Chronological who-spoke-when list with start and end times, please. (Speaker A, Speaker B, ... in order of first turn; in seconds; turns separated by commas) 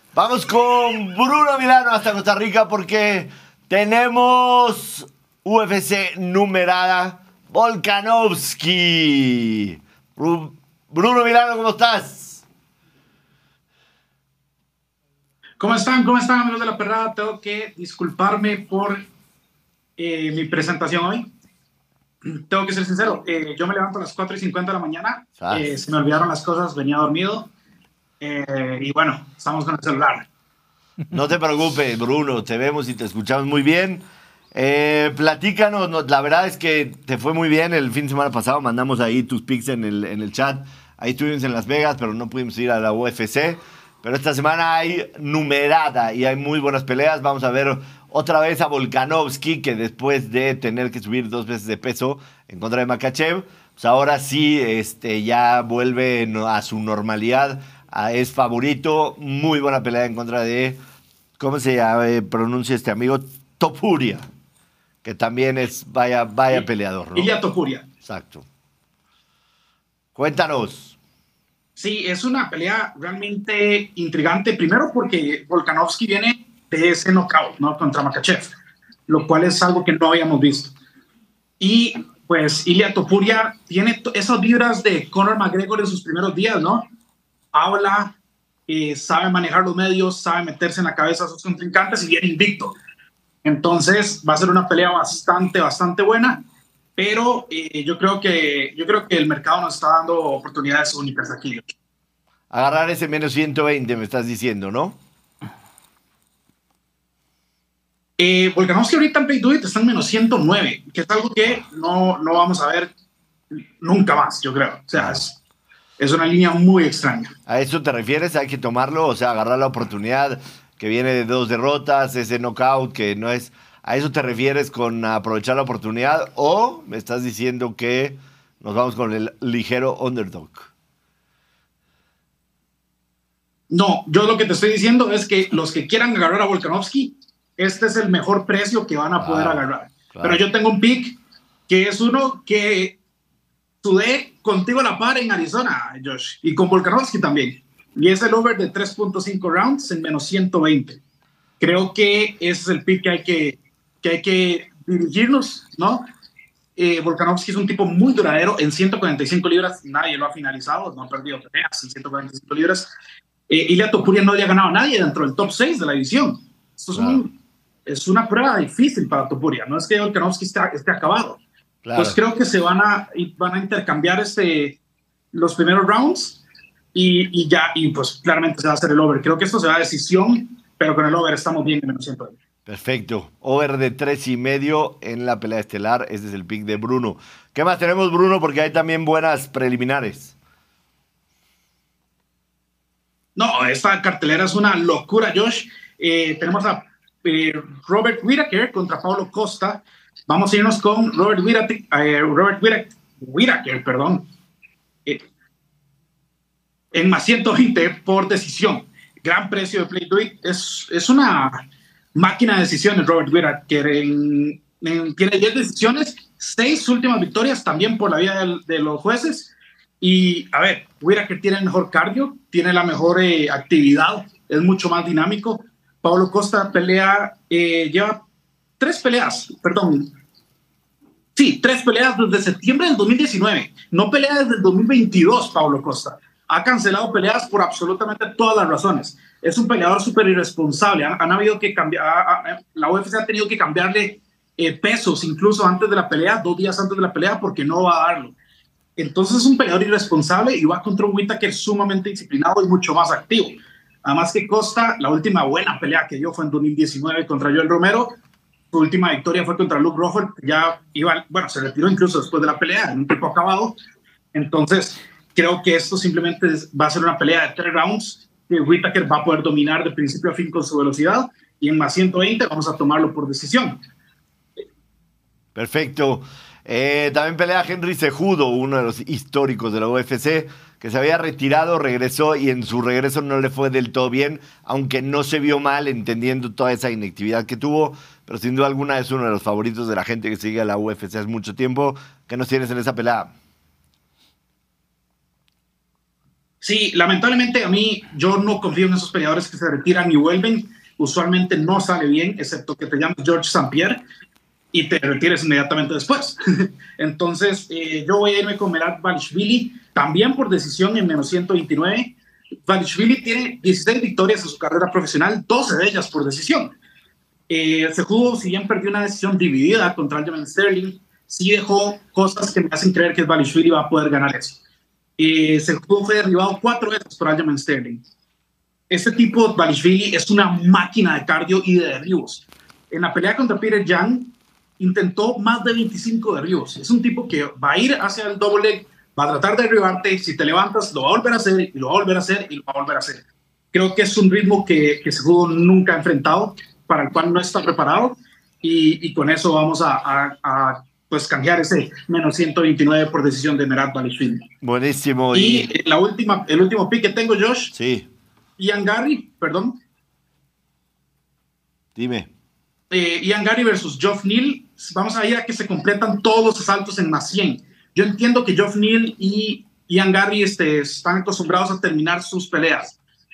Speaker A: 0.1-12.4, Speaker B: 15.6-19.1, Speaker B: 20.0-21.3, Speaker B: 22.2-27.5, Speaker A: 25.4-25.7, Speaker B: 28.2-30.3, Speaker A: 31.1-60.8, Speaker A: 61.4-64.3, Speaker A: 65.0-67.3, Speaker B: 67.2-67.9, Speaker A: 68.0-68.5, Speaker A: 70.2-71.0, Speaker B: 71.8-78.5, Speaker B: 79.1-80.7, Speaker B: 81.6-86.9, Speaker B: 87.5-88.2, Speaker B: 88.7-92.8, Speaker B: 93.4-96.5, Speaker B: 97.0-101.6, Speaker A: 102.5-105.0, Speaker B: 108.2-112.9, Speaker B: 113.8-115.4, Speaker B: 116.0-117.3, Speaker A: 117.5-130.7, Speaker B: 133.7-143.0, Speaker A: 139.2-140.4, Speaker B: 143.8-151.0, Speaker B: 151.6-156.1, Speaker B: 156.8-162.9, Speaker B: 163.5-167.3, Speaker A: 166.9-167.2, Speaker B: 167.9-171.4, Speaker A: 171.8-172.2, Speaker B: 171.9-174.8, Speaker B: 175.3-176.4, Speaker B: 176.9-182.4, Speaker A: 182.7-190.3, Speaker B: 193.4-204.3, Speaker B: 206.9-211.6, Speaker B: 212.2-228.2, Speaker B: 228.8-230.1, Speaker B: 231.4-248.3, Speaker B: 249.0-258.1, Speaker B: 258.7-263.8, Speaker B: 264.3-273.8, Speaker A: 275.6-293.3, Speaker B: 296.6-304.0, Speaker B: 304.7-312.2, Speaker B: 312.7-316.8, Speaker B: 317.5-324.6, Speaker B: 325.2-328.0, Speaker B: 328.9-354.4, Speaker A: 354.6-355.7, Speaker B: 355.3-357.7, Speaker A: 357.7-358.1, Speaker B: 358.6-359.8, Speaker A: 362.0-362.3, Speaker B: 362.9-373.0